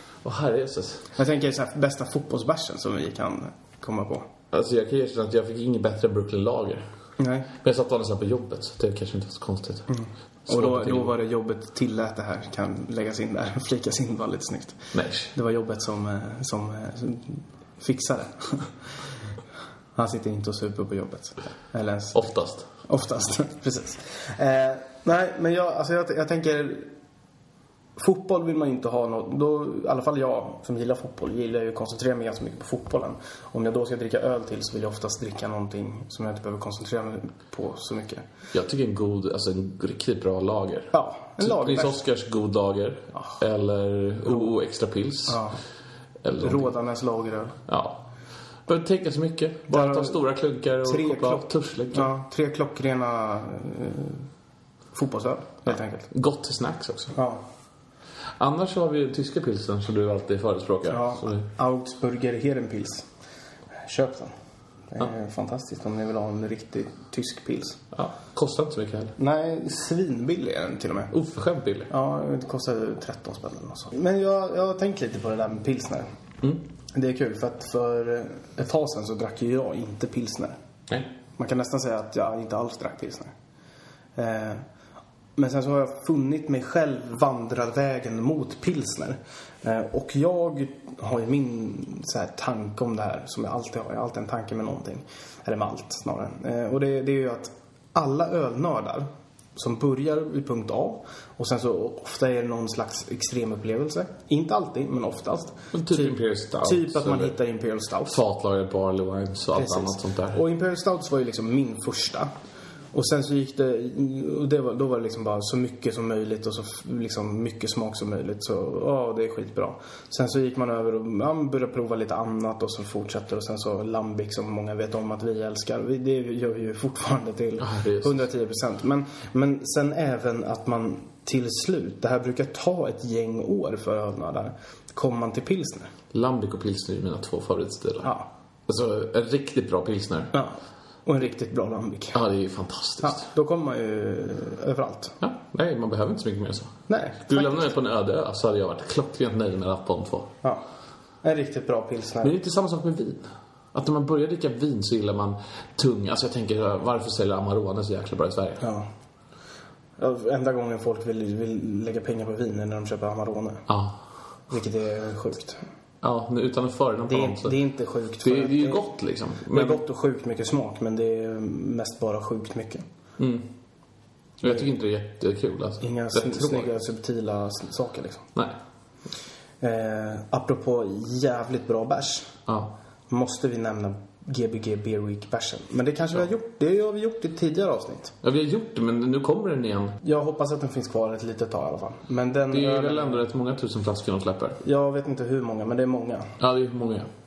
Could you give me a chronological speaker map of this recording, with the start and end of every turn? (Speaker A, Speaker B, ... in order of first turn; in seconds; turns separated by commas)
Speaker A: 0.2-1.1, Speaker B: 1.1-4.3, Speaker A: 4.5-6.8, Speaker B: 7.2-7.5, Speaker A: 7.6-9.9, Speaker B: 9.9-18.7, Speaker A: 10.5-11.1, Speaker A: 14.9-15.3, Speaker B: 19.9-22.2, Speaker A: 22.1-22.7, Speaker B: 22.8-26.9, Speaker B: 27.9-38.2, Speaker A: 38.5-45.4, Speaker B: 40.9-42.0, Speaker B: 45.3-45.6, Speaker A: 46.2-46.7, Speaker B: 46.4-47.6, Speaker A: 47.7-48.0, Speaker A: 48.6-52.1, Speaker B: 49.7-50.2, Speaker B: 50.8-54.2, Speaker B: 54.9-56.1, Speaker A: 55.7-57.1, Speaker B: 57.1-57.4, Speaker A: 58.4-61.5, Speaker B: 60.9-63.1, Speaker B: 63.8-64.3, Speaker B: 64.9-67.8, Speaker A: 67.9-69.2, Speaker B: 69.2-71.1, Speaker A: 71.1-71.9, Speaker B: 71.9-76.1, Speaker B: 76.9-80.5, Speaker B: 81.4-83.3, Speaker B: 84.2-84.6, Speaker B: 85.3-108.2, Speaker A: 105.7-107.3, Speaker A: 108.1-110.4, Speaker B: 109.5-112.3, Speaker B: 112.9-135.9, Speaker A: 127.6-128.2, Speaker A: 136.1-138.1, Speaker B: 138.0-138.3, Speaker A: 138.7-140.3, Speaker B: 140.3-142.2, Speaker A: 142.1-143.2, Speaker B: 143.0-145.2, Speaker A: 145.2-150.3, Speaker B: 146.9-147.7, Speaker B: 151.2-152.3, Speaker A: 152.2-158.6, Speaker B: 158.6-158.9, Speaker B: 160.0-163.7, Speaker A: 163.7-164.0, Speaker B: 164.5-165.6, Speaker A: 166.0-167.6, Speaker B: 167.1-168.9, Speaker A: 168.2-169.8, Speaker B: 169.4-172.8, Speaker A: 173.2-173.5, Speaker A: 174.4-176.7, Speaker B: 175.8-178.3, Speaker B: 179.6-182.3, Speaker A: 182.5-182.7, Speaker B: 183.1-188.2, Speaker A: 188.2-190.0, Speaker B: 190.0-193.2, Speaker A: 192.5-194.6, Speaker B: 194.6-196.3, Speaker A: 196.4-197.1